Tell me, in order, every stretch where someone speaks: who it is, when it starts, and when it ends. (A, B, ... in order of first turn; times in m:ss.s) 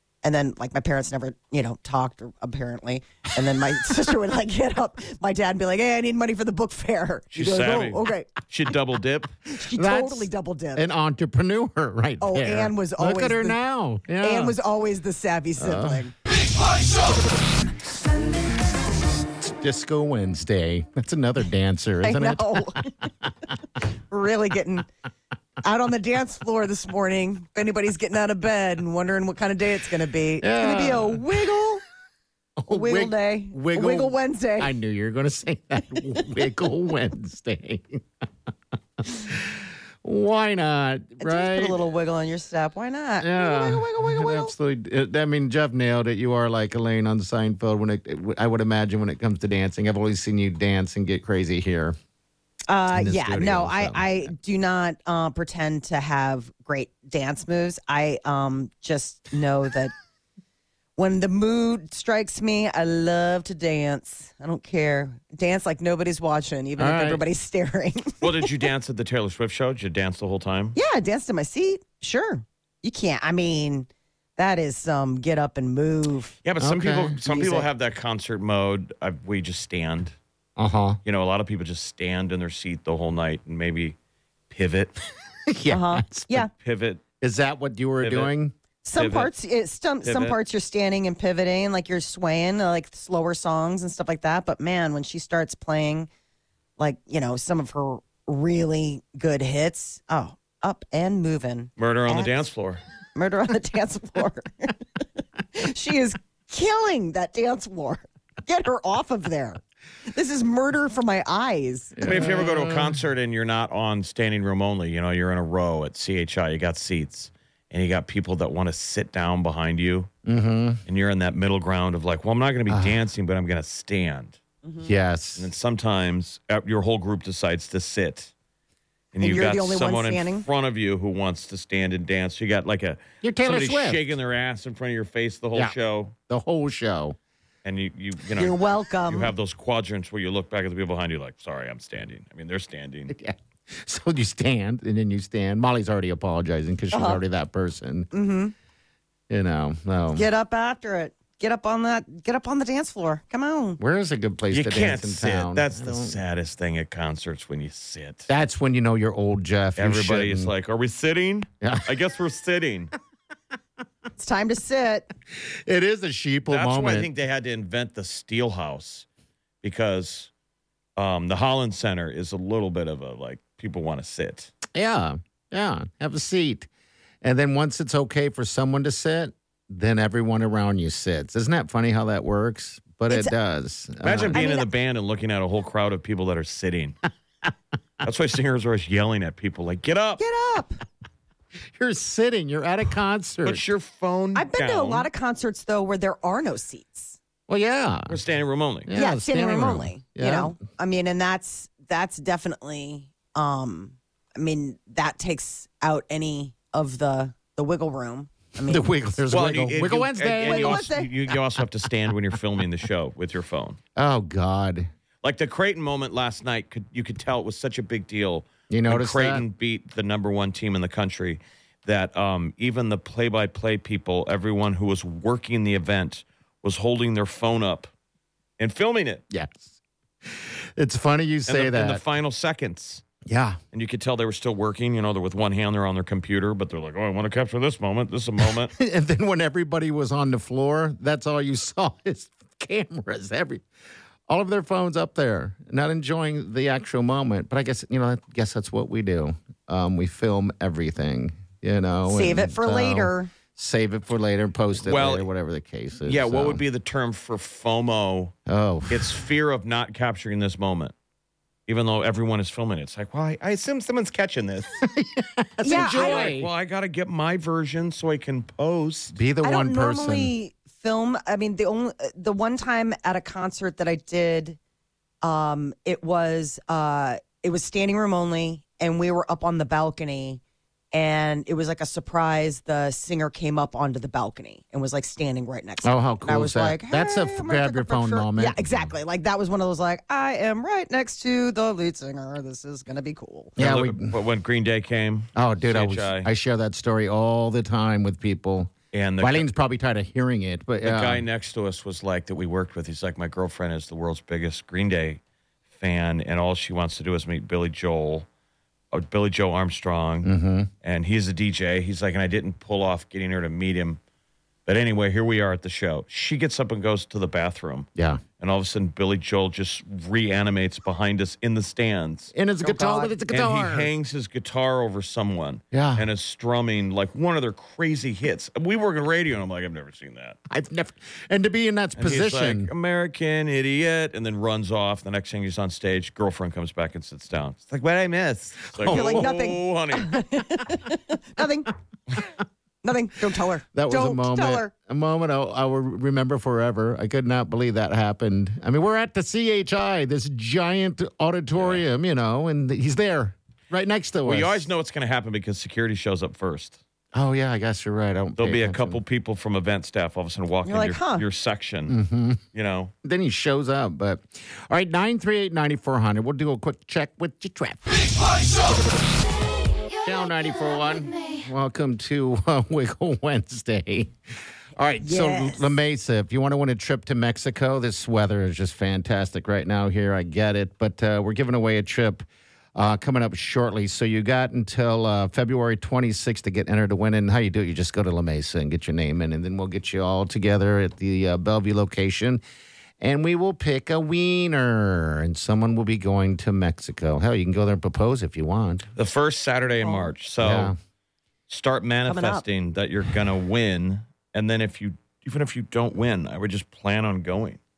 0:00.2-0:08.4 A
0:07.3-0:09.3 B
0:09.5-0:10.9 A
0:09.7-0:14.6 C
0:12.2-0:13.6 A
0:14.2-0:16.1 A
0:15.6-0:16.0 C
0:19.4-0:22.7 C
0:22.0-0:23.0 A
0:23.8-0:24.9 A
0:25.6-0:31.8 A
0:30.4-0:31.3 C
0:32.6-0:38.0 C
0:32.7-0:34.7 A
0:39.0-0:41.8 C
0:41.2-0:44.5 A
0:43.2-0:52.0 C
0:52.7-0:59.9 A
0:52.9-0:54.3 C
1:01.0-1:08.5 A
1:06.8-1:07.2 C
1:08.2-1:10.8 B
1:10.8-1:16.4 A
1:16.4-1:20.2 B
1:16.6-1:17.2 C
1:17.3-1:17.7 A
1:20.6-1:21.0 C
1:21.0-1:24.0 B
1:24.5-1:25.0 B
1:25.5-1:26.5 C
1:25.7-1:26.5 A
1:26.5-1:27.0 B
1:27.2-1:28.5 C
1:28.0-1:28.3 B
1:28.8-1:36.1 A
1:28.9-1:29.3 B
1:30.0-1:30.4 B
1:36.8-1:42.5 A
1:41.8-1:42.8 B
1:43.1-1:44.8 A
1:45.5-1:49.6 A
1:50.1-1:51.9 A
1:51.9-1:53.0 C
1:52.0-2:00.1 B
2:00.2-2:00.8 C
2:00.8-2:04.4 B
2:02.7-2:03.0 C
2:04.6-2:04.9 A
2:04.8-2:05.5 C
2:05.4-2:08.3 B
2:09.1-2:16.1 B
2:09.2-2:10.5 A
2:13.2-2:14.1 C
2:16.3-2:17.2 C
2:17.6-2:23.1 B
2:18.3-2:19.3 A
2:23.1-2:28.1 C
2:26.9-2:27.2 A
2:28.1-2:28.5 A
2:29.3-2:30.2 C
2:30.1-2:33.8 A
2:33.8-2:36.2 C
2:34.5-2:38.3 B
2:38.3-2:40.5 C
2:39.8-2:42.9 B
2:41.6-2:41.9 C
2:44.1-2:45.1 A
2:45.6-2:47.1 C
2:46.5-2:49.1 B
2:49.6-2:50.3 B
2:51.0-2:54.5 B
2:54.7-2:56.7 C
2:57.2-3:04.4 C
3:03.1-3:03.4 A
3:04.0-3:07.0 B
3:04.3-3:04.7 A
3:08.0-3:10.2 B
3:10.2-3:10.7 A
3:11.8-3:13.7 C
3:13.4-3:15.1 B
3:14.3-3:17.2 A
3:17.5-3:18.2 C
3:18.1-3:18.9 B
3:18.8-3:20.5 C
3:18.9-3:28.9 A
3:28.6-3:30.9 C
3:29.3-3:33.8 B
3:30.4-3:31.1 A
3:34.0-3:34.9 C
3:35.2-3:47.9 B
3:38.7-3:39.4 C
3:48.6-3:49.2 B
3:49.3-3:49.7 C
3:50.4-3:52.0 C
3:51.5-3:53.0 B
3:53.2-3:53.6 C
3:53.7-3:58.7 B
3:58.5-4:03.6 C
4:04.3-4:16.6 C
4:12.0-4:13.3 A
4:14.7-4:15.3 B
4:16.0-4:18.3 B
4:18.5-4:19.2 C
4:18.9-4:20.9 B
4:21.7-4:24.8 B
4:24.8-4:26.5 C
4:25.6-4:29.2 B
4:25.6-4:26.4 A
4:29.1-4:30.3 C
4:29.4-4:34.6 A
4:35.2-4:40.4 A
4:40.9-4:53.5 A
4:45.8-4:48.9 C
4:53.6-4:54.1 C
4:53.6-4:56.3 B
4:55.4-5:01.2 C
4:58.9-4:59.5 B
5:00.8-5:05.2 B
5:05.7-5:08.3 B
5:08.9-5:10.3 B
5:10.2-5:10.7 C
5:10.8-5:14.0 B
5:14.6-5:17.9 B
5:18.0-5:18.2 C
5:18.4-5:22.3 B
5:22.3-5:23.9 C
5:22.6-5:23.2 A
5:23.3-5:30.4 B
5:25.7-5:26.1 C
5:30.5-5:32.7 C
5:32.0-5:40.2 B
5:38.8-5:39.3 C
5:38.8-5:41.7 A
5:42.8-5:44.7 A
5:43.7-5:54.7 C
5:51.5-5:51.8 B
5:54.2-5:56.8 B
5:57.1-5:59.0 C
5:58.4-6:02.0 B
6:00.6-6:01.2 A
6:01.9-6:02.4 C
6:02.5-6:02.9 B
6:03.0-6:08.3 C
6:09.9-6:14.1 C
6:14.8-6:32.4 C
6:15.0-6:15.7 A
6:33.0-6:38.9 C
6:39.0-6:40.7 B
6:39.8-6:40.1 A
6:40.4-6:40.7 C
6:41.5-6:47.6 B
6:42.0-6:42.4 A